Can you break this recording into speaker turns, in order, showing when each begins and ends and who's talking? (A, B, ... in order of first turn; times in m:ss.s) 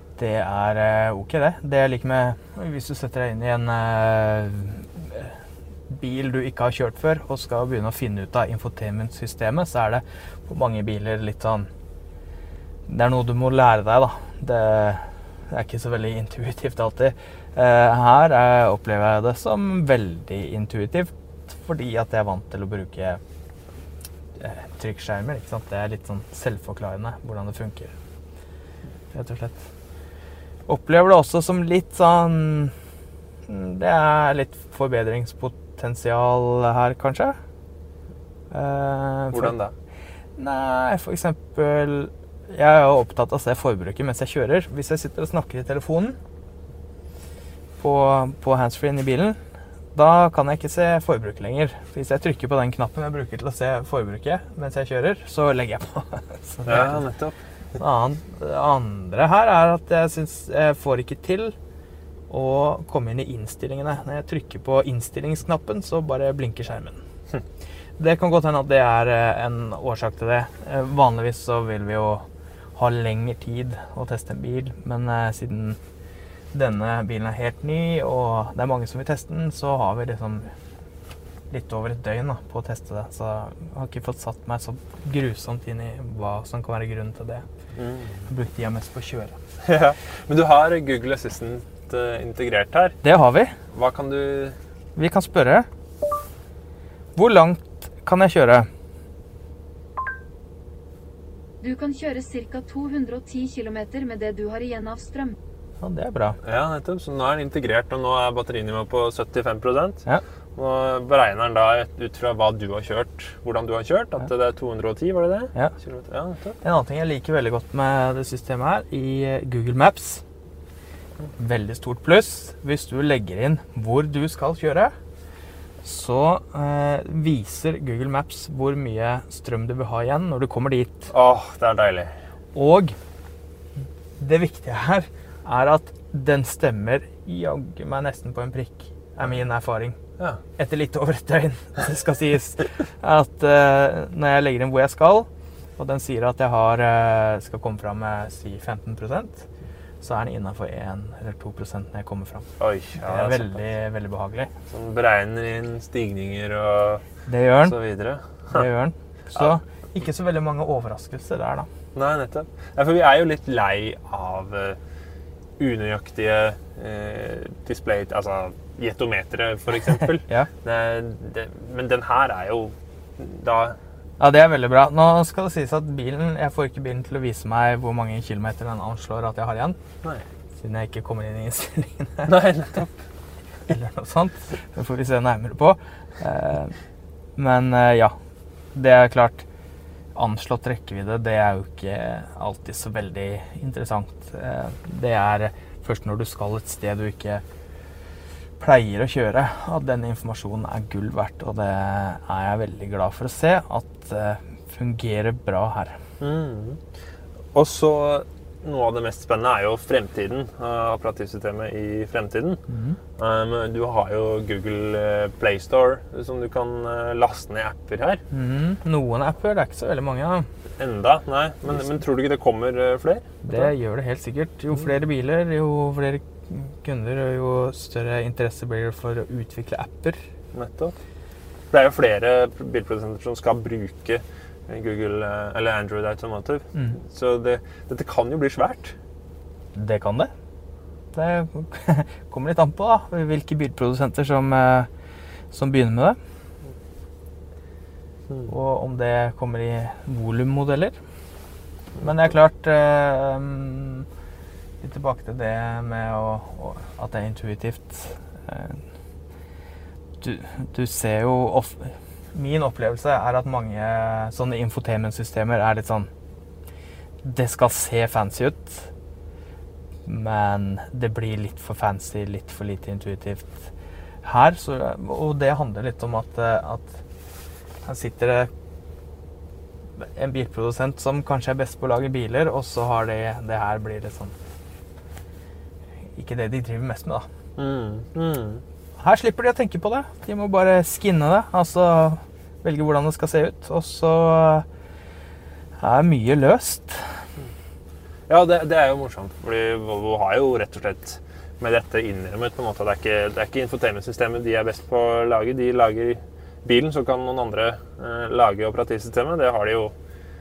0:00.2-0:05.3 A
0:05.9-0:11.7 A
0:12.9-0:23.2 A
0:24.4-0:27.9 A
0:29.1-0:29.6 A
0:30.7-0:32.7 A
0:33.5-0:37.4 A
0:38.5-0:39.6 A
0:39.3-0:39.7 B
0:40.4-0:46.2 A
0:47.8-0:49.4 A
0:49.9-0:57.0 A
0:56.7-0:57.4 B
0:57.8-1:01.6 A
1:02.3-1:07.0 A
1:08.0-1:15.8 A
1:16.5-1:20.5 A
1:21.5-1:27.4 A
1:27.8-1:28.3 B
1:28.3-1:29.4 A
1:29.6-1:33.0 B
1:33.0-1:33.6 A
1:33.7-1:34.6 B
1:35.0-1:35.7 A
1:37.2-1:38.7 A
1:41.6-1:45.4 C
1:45.8-1:46.4 A
1:46.4-1:56.6 B
1:56.6-2:00.2 A
2:01.4-2:04.9 A
2:05.8-2:11.1 A
2:11.1-2:12.1 B
2:12.6-2:13.0 A
2:14.2-2:20.0 A
2:20.6-2:29.5 A
2:30.0-2:34.5 A
2:32.6-2:33.6 B
2:34.7-2:37.0 B
2:37.3-2:37.8 A
2:37.6-2:38.7 B
2:38.5-2:41.7 A
2:41.9-2:44.8 B
2:45.6-2:53.8 B
2:54.2-2:59.8 A
3:00.6-3:02.5 A
3:02.3-3:03.0 B
3:03.7-3:06.8 A
3:07.4-3:08.2 A
3:08.7-3:09.5 A
3:10.2-3:17.4 A
3:18.6-3:26.0 A
3:26.2-3:26.8 B
3:27.5-3:32.6 B
3:32.7-3:33.0 A
3:33.2-3:38.2 B
3:38.3-3:40.5 A
3:40.8-3:43.7 B
3:43.4-3:50.2 A
3:50.5-3:51.0 B
3:51.7-3:59.0 B
3:56.7-3:57.0 A
3:59.8-4:00.3 A
4:01.1-4:04.9 A
4:05.5-4:06.2 A
4:08.5-4:11.0 A
4:12.0-4:14.1 A
4:14.8-4:18.8 A
4:20.2-4:26.1 A
4:27.2-4:28.9 A
4:30.1-4:33.7 A
4:34.2-4:37.0 A
4:37.8-4:38.5 A
4:40.0-4:44.4 A
4:46.1-4:47.3 A
4:47.6-4:48.6 B
4:49.0-4:54.7 A
4:55.8-4:57.2 A
4:58.3-5:09.9 B